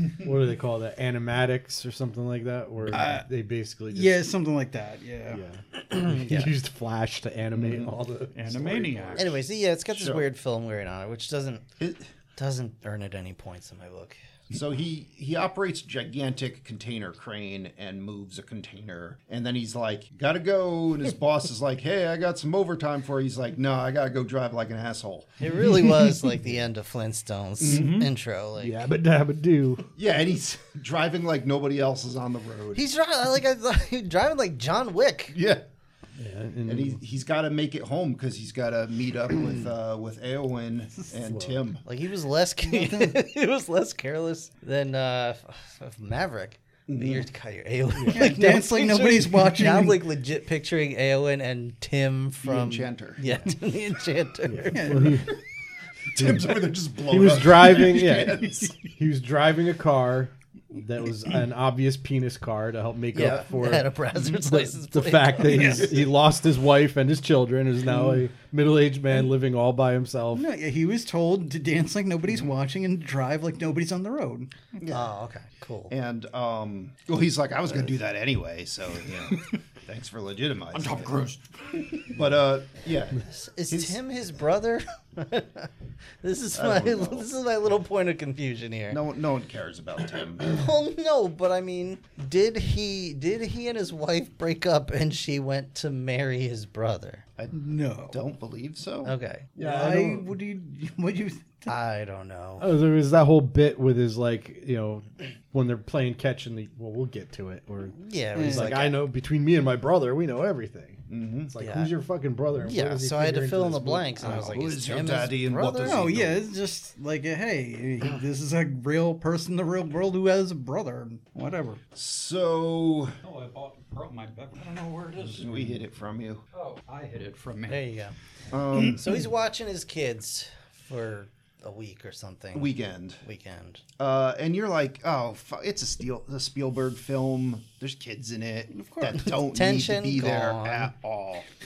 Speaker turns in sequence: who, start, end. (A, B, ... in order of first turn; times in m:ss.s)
0:00.2-0:04.3 A
0:02.9-0:03.3 B
0:03.9-0:05.4 B
0:05.3-0:09.2 A
0:06.1-0:06.5 C
0:07.6-0:07.9 D
0:08.3-0:09.4 E
0:09.0-0:09.3 D
0:09.2-0:11.7 C
0:09.9-0:10.3 D
0:11.8-0:12.1 D
0:12.4-0:14.2 C
0:14.5-0:25.4 D
0:25.4-0:28.8 C
0:27.6-0:27.9 D
0:27.6-0:28.1 E
0:28.6-0:29.9 A
0:30.0-0:32.8 D
0:32.8-0:35.4 C
0:35.3-0:35.6 D
0:36.2-0:37.0 A
0:36.7-0:41.8 D
0:41.2-0:41.6 A
0:41.8-0:55.2 C
0:42.6-0:43.2 B
0:46.9-0:47.3 D
0:48.0-0:48.4 A
0:48.1-0:50.0 B
0:52.4-0:53.2 D
0:54.5-0:55.4 A
0:54.7-0:55.1 B
0:56.1-0:58.7 D
0:56.2-1:10.5 A
1:03.1-1:05.9 C
1:05.4-1:06.0 B
1:10.3-1:14.5 B
1:14.8-1:15.1 D
1:14.9-1:15.9 C
1:15.9-1:21.3 D
1:20.7-1:22.1 E
1:22.0-1:24.0 D
1:23.2-1:29.0 C
1:26.5-1:27.3 D
1:28.9-1:30.5 D
1:30.4-1:37.2 C
1:37.5-1:38.2 B
1:38.1-1:39.1 D
1:39.0-1:39.7 C
1:39.6-1:40.3 A
1:39.6-1:41.7 B
1:41.7-1:42.7 C
1:42.6-1:54.4 A
1:47.9-1:49.0 C
1:48.4-1:48.8 B
1:51.1-1:51.5 D
1:51.6-1:51.9 C
1:52.6-1:56.2 C
1:54.2-1:56.4 D
1:55.8-2:01.8 B
2:02.0-2:03.2 D
2:03.2-2:05.8 E
2:05.4-2:06.4 D
2:06.5-2:07.9 E
2:07.7-2:08.2 C
2:08.5-2:09.1 D
2:08.8-2:09.1 E
2:08.8-2:13.8 C
2:12.5-2:13.2 D
2:14.0-2:21.5 D
2:18.7-2:19.2 B
2:19.2-2:20.9 C